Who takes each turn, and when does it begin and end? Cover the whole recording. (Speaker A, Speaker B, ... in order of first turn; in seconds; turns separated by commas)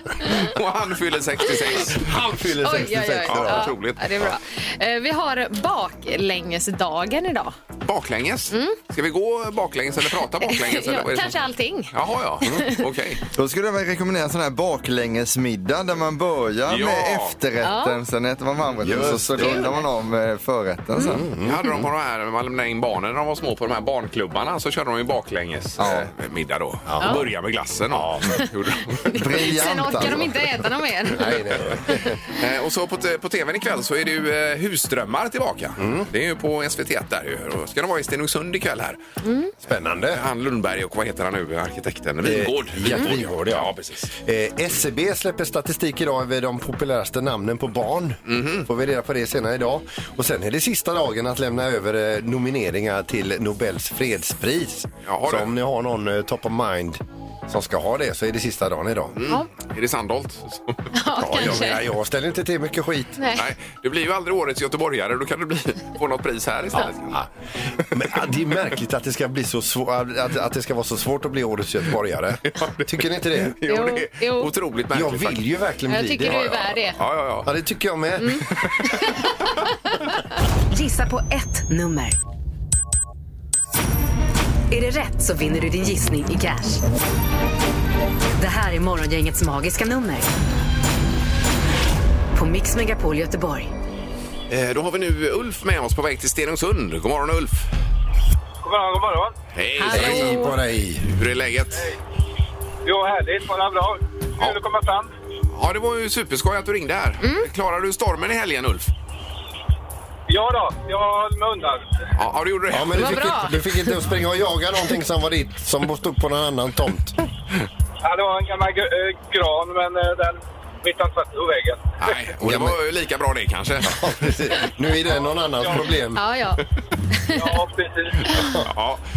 Speaker A: 0.2-2.2, Speaker B: 1.7-3.8, Speaker C: 2.6-7.5, Speaker A: 3.2-4.3, Speaker A: 7.8-13.2, Speaker C: 8.5-8.8, Speaker C: 10.4-12.9, Speaker D: 13.3-21.3, Speaker A: 16.7-17.4, Speaker C: 17.6-18.0, Speaker B: 18.8-19.7, Speaker C: 19.4-19.8, Speaker B: 21.0-21.9, Speaker A: 21.3-29.1, Speaker D: 25.8-26.1, Speaker B: 26.9-27.3, Speaker B: 27.9-28.4, Speaker C: 28.3-32.1, Speaker D: 29.1-30.3, Speaker B: 31.1-32.2, Speaker A: 32.3-39.0, Speaker B: 35.8-36.1, Speaker C: 39.2-39.5, Speaker B: 39.7-40.3, Speaker A: 40.1-44.1, Speaker B: 42.2-59.1, Speaker A: 48.3-48.7, Speaker A: 55.1-55.5, Speaker A: 59.2-60.9, Speaker C: 60.9-61.8, Speaker B: 61.1-63.2, Speaker C: 63.2-63.5, Speaker A: 63.4-67.2, Speaker B: 66.7-73.6, Speaker A: 72.5-75.4, Speaker C: 73.7-74.5, Speaker B: 74.9-76.7, Speaker C: 75.9-77.0, Speaker A: 76.2-77.5, Speaker B: 77.5-78.5, Speaker C: 78.2-79.3, Speaker E: 80.7-82.2, Speaker E: 84.7-86.8, Speaker E: 88.4-90.3, Speaker E: 92.3-93.7, Speaker A: 94.5-97.7, Speaker F: 98.6-99.3, Speaker A: 99.5-100.4, Speaker C: 99.8-100.6, Speaker B: 99.9-101.1, Speaker A: 101.0-101.9, Speaker F: 102.8-105.1, Speaker A: 105.5-108.9, Speaker C: 107.2-107.5, Speaker F: 110.3-111.9, Speaker A: 112.2-113.1, Speaker B: 112.7-117.2, Speaker C: 113.0-114.0, Speaker F: 118.0-121.8, Speaker A: 122.0-124.1, Speaker B: 122.4-122.8, Speaker B: 123.8-126.2, Speaker F: 125.1-125.9, Speaker C: 126.2-127.5, Speaker F: 127.3-128.3, Speaker B: 128.3-128.7, Speaker A: 128.7-129.0